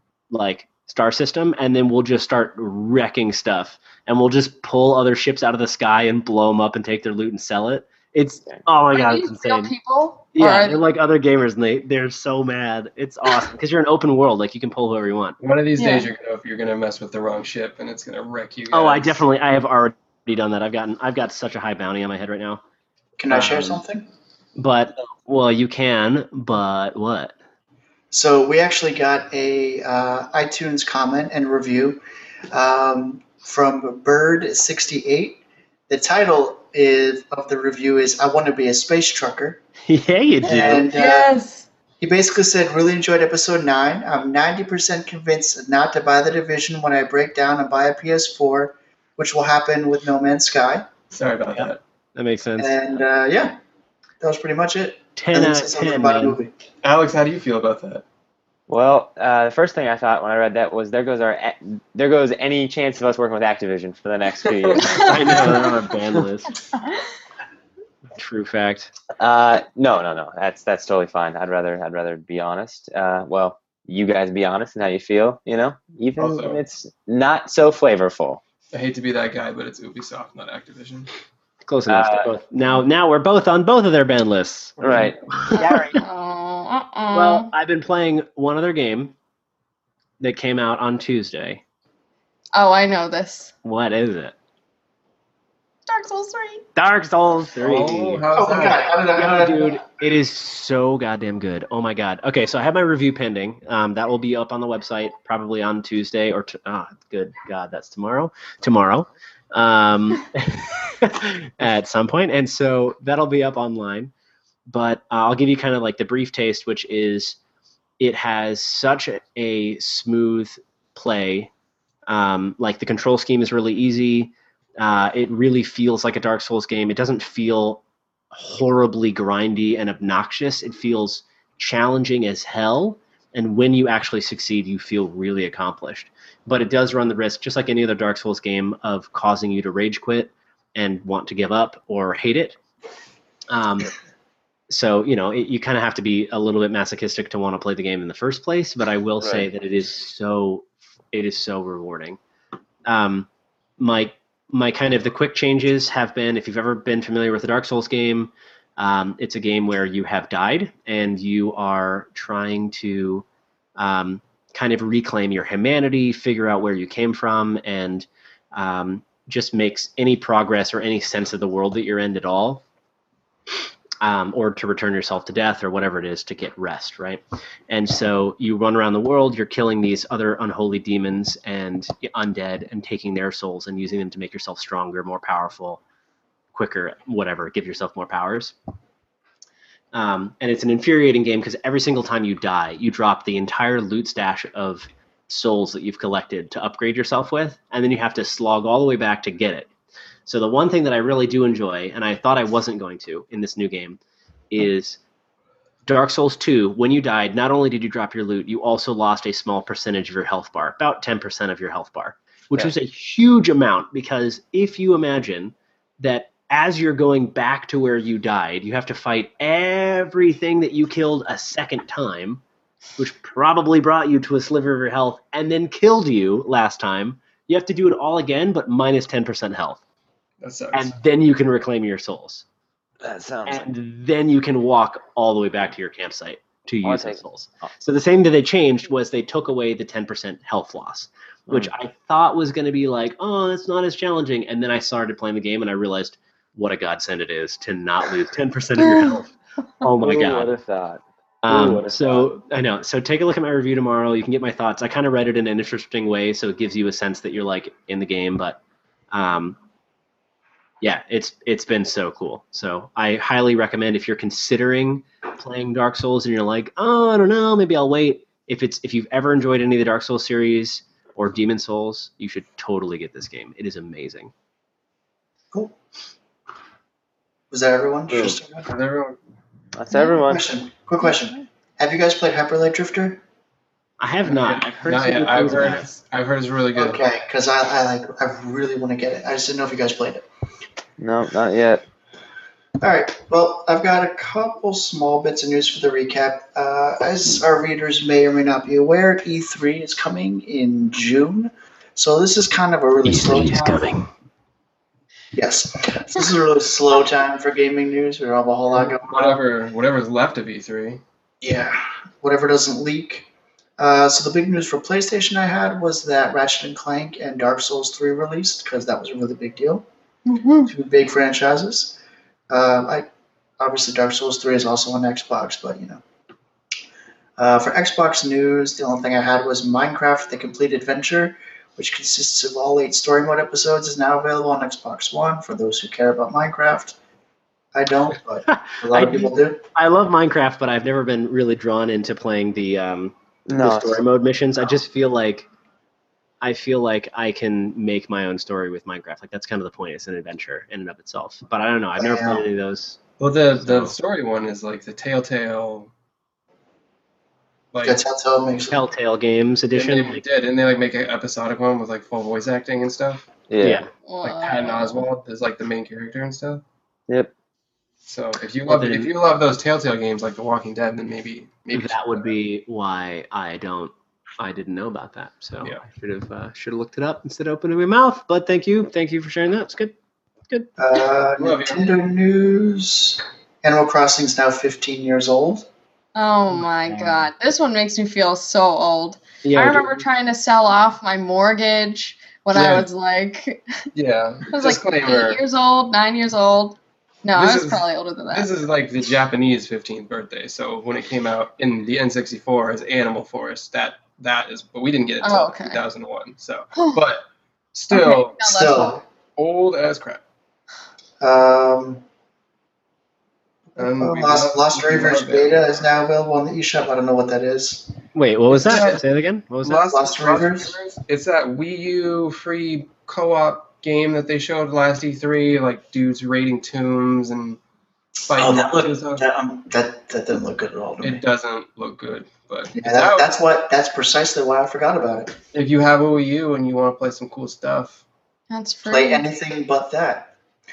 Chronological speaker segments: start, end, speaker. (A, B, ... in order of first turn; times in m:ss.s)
0:00.3-0:09.7 A
0:08.9-0:10.8 B
0:10.3-0:15.4 A
0:15.4-0:19.2 C
0:15.8-0:16.1 B
0:18.7-0:22.6 A
0:23.2-0:24.1 D
0:23.3-0:23.8 A
0:24.6-0:27.3 A
0:28.1-0:39.6 D
0:39.9-0:40.9 A
0:40.4-0:41.3 D
0:40.9-0:41.7 B
0:42.0-0:50.9 D
0:51.1-0:51.8 C
0:51.6-0:52.8 A
0:52.6-0:53.6 D
0:54.2-0:56.5 D
0:55.2-0:56.4 A
0:56.8-0:58.0 C
0:58.7-1:05.6 E
1:04.8-1:05.2 B
1:04.9-1:06.6 A
1:06.7-1:07.0 B
1:08.2-1:08.9 A
1:09.2-1:18.4 E
1:16.2-1:16.6 C
1:18.7-1:21.1 C
1:21.6-1:26.0 A
1:21.9-1:22.3 E
1:24.8-1:25.1 C
1:24.8-1:25.2 E
1:25.5-1:27.5 B
1:27.1-1:29.1 A
1:30.2-1:31.6 A
1:32.5-1:33.5 B
1:33.6-1:34.3 A
1:35.9-1:36.6 B
1:36.8-1:38.2 A
1:37.6-1:38.9 C
1:38.3-1:39.8 D
1:39.1-1:54.1 A
1:54.7-1:57.4 A
1:58.0-2:01.5 A
2:02.1-2:22.6 A
2:23.5-2:23.9 A
2:24.7-2:32.2 A
2:29.2-2:29.5 E
2:32.8-2:43.2 A
2:43.8-2:52.6 A
2:54.0-3:05.8 A
3:06.5-3:08.5 A
3:09.9-3:19.7 A
3:20.2-3:24.0 A
3:24.5-3:25.0 A
3:25.8-3:42.4 A
3:43.0-3:49.8 A
3:50.4-3:50.9 C
3:50.7-3:52.4 A
3:53.0-3:53.7 E
3:53.4-4:09.3 A
3:56.8-3:57.2 E
4:08.8-4:09.2 B
4:09.8-4:10.5 A
4:10.0-4:12.3 E
4:11.4-4:18.6 A
4:19.1-4:19.6 A
4:20.8-4:34.3 A
4:37.5-4:38.7 D
4:38.6-4:39.2 C
4:39.8-4:40.4 E
4:39.9-4:40.2 B
4:40.2-4:43.2 D
4:44.0-4:45.9 A
4:44.3-4:47.0 C
4:46.7-4:50.2 D
4:51.0-4:51.8 E
4:52.8-5:04.0 D
5:03.0-5:04.1 A
5:05.3-5:09.4 D
5:08.7-5:11.0 C
5:11.4-5:13.3 D
5:13.8-5:19.8 D
5:20.3-5:20.7 B
5:20.6-5:22.0 D
5:22.5-5:26.0 D
5:27.4-5:37.0 D
5:37.7-5:39.6 D
5:38.5-5:45.5 A
5:43.5-5:44.0 E
5:46.4-5:53.0 A
5:52.0-5:52.4 D
5:53.2-5:55.9 C
5:53.6-5:53.9 A
5:57.7-5:58.0 C
5:57.8-5:58.8 D
5:58.7-6:00.2 A
5:59.7-6:03.3 C
6:03.5-6:03.8 E
6:03.6-6:03.9 A
6:04.0-6:05.1 B
6:04.2-6:06.6 C
6:08.0-6:12.3 C
6:08.7-6:09.1 A
6:11.7-6:19.9 A
6:20.8-6:25.7 D
6:21.4-6:22.0 C
6:26.1-6:33.6 B
6:26.8-6:27.3 A
6:29.4-6:30.0 A
6:32.5-6:32.9 C
6:33.9-6:35.4 C
6:34.5-6:38.5 B
6:37.3-6:48.4 C
6:45.2-6:45.8 B
6:46.7-6:47.0 B
6:47.9-6:49.0 B
6:48.4-6:49.0 D
6:49.4-6:50.2 C
6:51.2-6:52.0 D
6:53.7-6:57.9 D
6:53.8-6:55.8 C
6:58.1-6:59.8 A
6:58.5-6:59.0 C
6:59.6-7:07.6 C
6:59.9-7:00.7 D
7:08.2-7:09.2 C
7:08.3-7:11.2 D
7:11.0-7:13.3 C
7:12.7-7:15.4 D
7:15.5-7:18.0 C
7:18.5-7:19.2 B
7:18.8-7:20.3 D